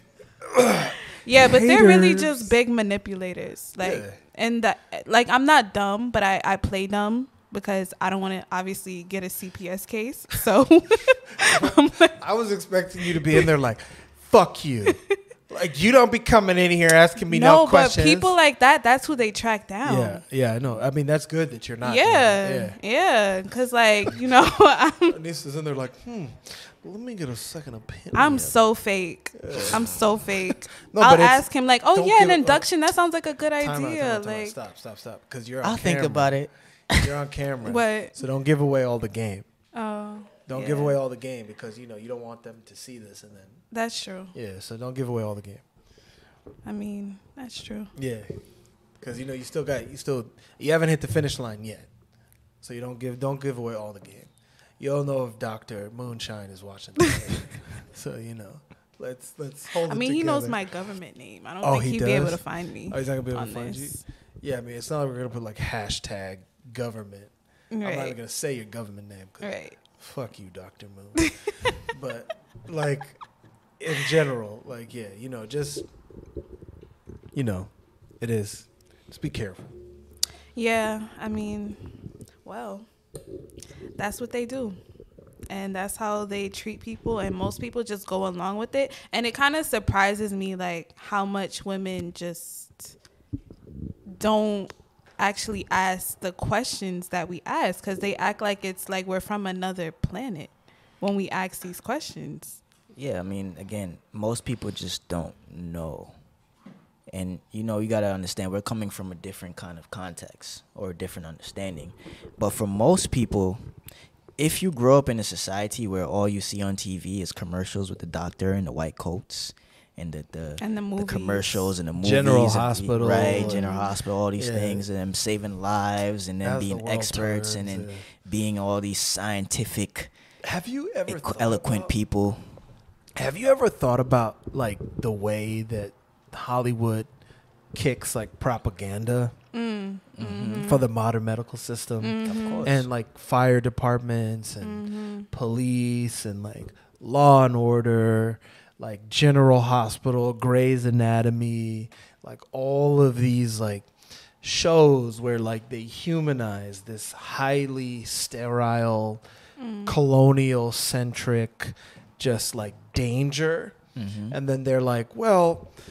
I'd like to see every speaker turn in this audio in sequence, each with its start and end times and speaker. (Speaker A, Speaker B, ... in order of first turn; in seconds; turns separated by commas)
Speaker A: 0.5-2.5, Speaker B: 1.2-12.2, Speaker A: 3.8-4.2, Speaker A: 11.4-18.4, Speaker B: 17.3-20.2, Speaker A: 19.8-22.8, Speaker B: 21.8-25.2, Speaker A: 25.1-28.6, Speaker B: 28.1-34.6, Speaker A: 29.4-30.0, Speaker A: 30.9-32.6, Speaker A: 33.6-36.4, Speaker C: 35.6-37.1, Speaker A: 36.9-39.5, Speaker B: 37.7-38.2, Speaker B: 39.7-41.0, Speaker A: 40.5-43.6, Speaker B: 43.7-44.4, Speaker A: 44.3-45.6, Speaker B: 46.6-47.9, Speaker A: 48.0-48.4, Speaker A: 49.0-51.9, Speaker A: 52.6-60.6, Speaker B: 59.9-64.0, Speaker A: 61.6-71.4, Speaker B: 67.7-68.2, Speaker B: 69.4-69.8, Speaker A: 71.9-73.2, Speaker A: 73.8-75.9, Speaker A: 77.3-79.7, Speaker B: 80.5-81.9, Speaker B: 82.4-82.9, Speaker B: 84.0-84.8, Speaker B: 85.5-93.0, Speaker B: 94.1-102.6, Speaker C: 103.0-106.1, Speaker C: 107.1-113.7, Speaker C: 114.4-130.1, Speaker B: 120.6-121.7, Speaker A: 122.0-123.8, Speaker B: 123.3-123.9, Speaker A: 124.4-124.8, Speaker A: 126.4-128.1, Speaker A: 130.4-131.9, Speaker C: 131.1-132.5, Speaker A: 133.2-137.1, Speaker A: 137.7-139.3, Speaker B: 139.5-140.8, Speaker C: 140.2-140.8, Speaker A: 140.6-153.9, Speaker B: 142.0-142.8, Speaker C: 142.2-142.8, Speaker B: 144.6-145.3, Speaker A: 154.4-159.2, Speaker B: 159.6-160.0, Speaker A: 159.9-163.8, Speaker C: 164.0-164.4, Speaker A: 164.3-165.7